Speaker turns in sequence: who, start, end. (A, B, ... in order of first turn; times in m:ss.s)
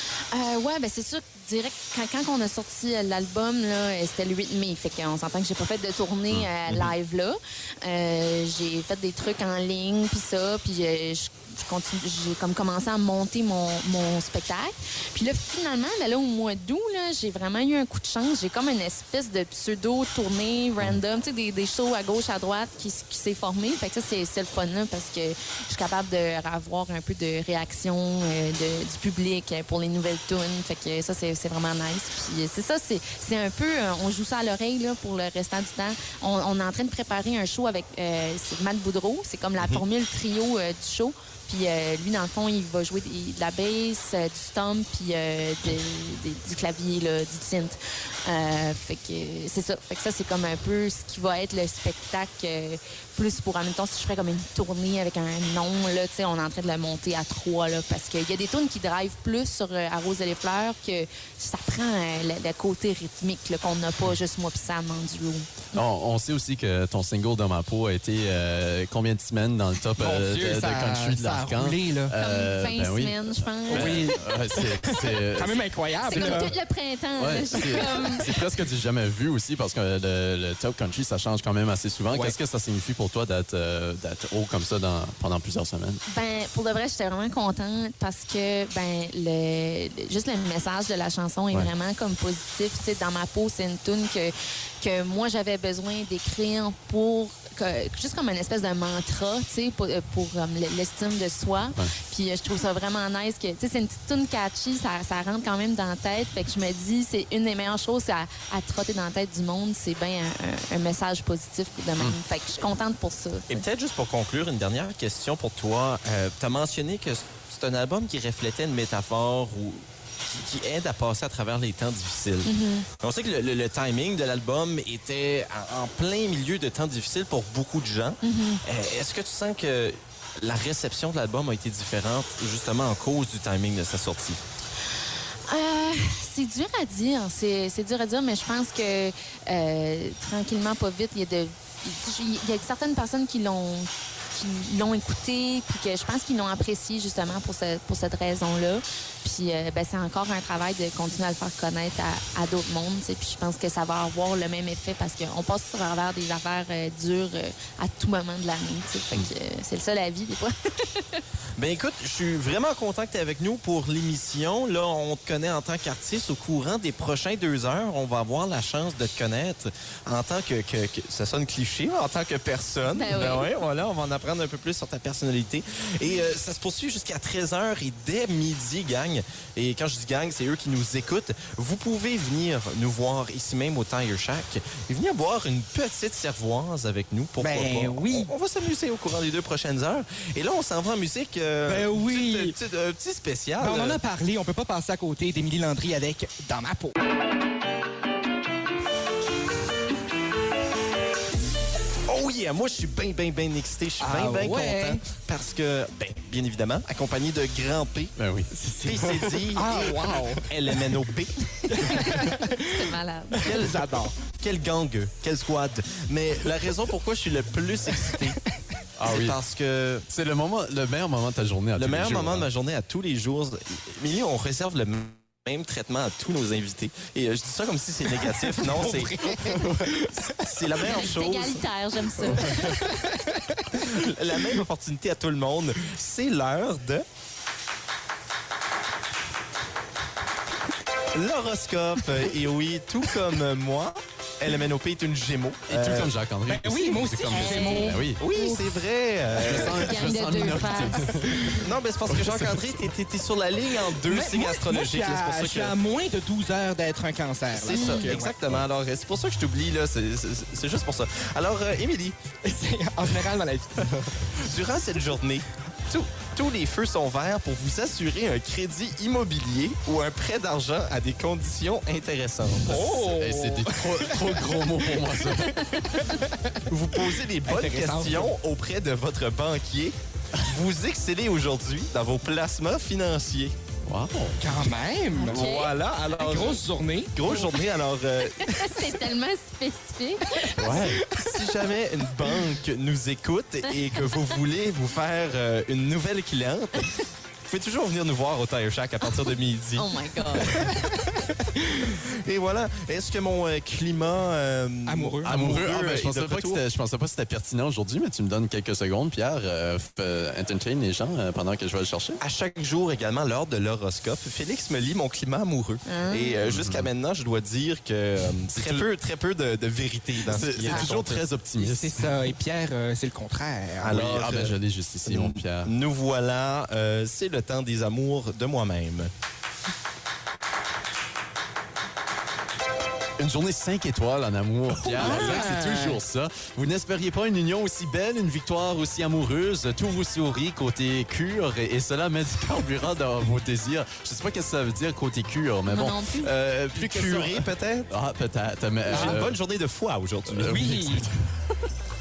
0:00.3-1:05.7 A
0:06.3-0:06.9 B
1:05.7-1:16.6 B
1:10.0-1:12.2 C
1:12.1-1:14.2 A
1:13.7-1:16.5 C
1:16.1-1:18.3 A
1:17.2-1:26.0 B
1:26.1-1:53.6 A
1:53.5-2:14.4 D
2:02.4-2:02.9 A
2:08.2-2:08.6 A
2:15.5-2:41.2 A
2:41.6-3:14.0 D
2:52.9-2:53.5 A
3:07.4-3:08.3 C
3:11.7-3:12.6 C
3:13.6-3:17.0 C
3:22.1-3:28.2 D
3:24.0-3:25.0 C
3:28.2-3:29.4 B
3:28.5-3:30.5 C
3:28.8-3:32.1 D
3:31.7-3:34.2 C
3:32.5-3:33.6 A
3:33.4-3:38.4 D
3:39.0-3:39.4 B
3:39.1-3:40.1 D
3:40.1-3:42.5 B
3:41.8-3:49.2 D
3:48.3-3:51.0 C
3:49.4-3:50.1 B
3:50.3-3:51.6 D
3:50.8-3:52.8 A
3:52.2-3:52.9 B
3:52.6-3:53.9 C
3:53.7-3:57.0 D
4:01.1-4:06.1 D
4:05.7-4:08.2 B
4:06.5-4:08.7 C
4:07.3-4:08.1 A
4:08.2-4:09.9 D
4:09.3-4:12.8 B
4:09.7-4:11.6 A
4:11.5-4:15.8 D
4:14.0-4:18.4 C
4:17.5-4:22.2 D
4:17.7-4:18.1 A
4:22.4-4:24.1 C
4:24.4-4:33.0 D
4:32.7-4:35.0 C
4:32.9-4:35.8 B
4:35.6-4:36.0 A
4:35.9-4:36.6 C
4:36.7-4:43.6 D
4:37.4-4:38.3 C
4:43.9-4:44.5 B
4:44.4-4:47.6 C
4:45.2-4:48.6 D
4:45.2-4:45.7 A
4:48.4-4:50.8 A
4:50.6-4:51.0 B
4:50.7-4:51.5 C
4:51.0-5:00.7 D
4:59.8-5:00.7 A
5:00.6-5:00.9 C
5:01.6-5:01.9 C
5:01.9-5:06.6 D
5:04.9-5:05.5 C
5:05.2-5:12.2 B
5:12.2-5:21.2 D
5:15.8-5:16.4 A
5:16.4-5:16.9 B
5:18.5-5:18.9 B
5:20.3-5:22.2 B
5:20.6-5:20.9 C
5:21.6-5:24.0 C
5:23.8-5:29.1 D
5:23.9-5:25.7 B
5:33.2-5:49.4 B
5:34.9-5:36.0 C
5:35.0-5:35.5 D
5:45.7-5:46.3 A
5:46.7-5:47.9 D
5:48.9-5:50.7 D
5:48.9-5:49.2 C
5:50.3-5:51.6 B
5:50.4-5:51.1 C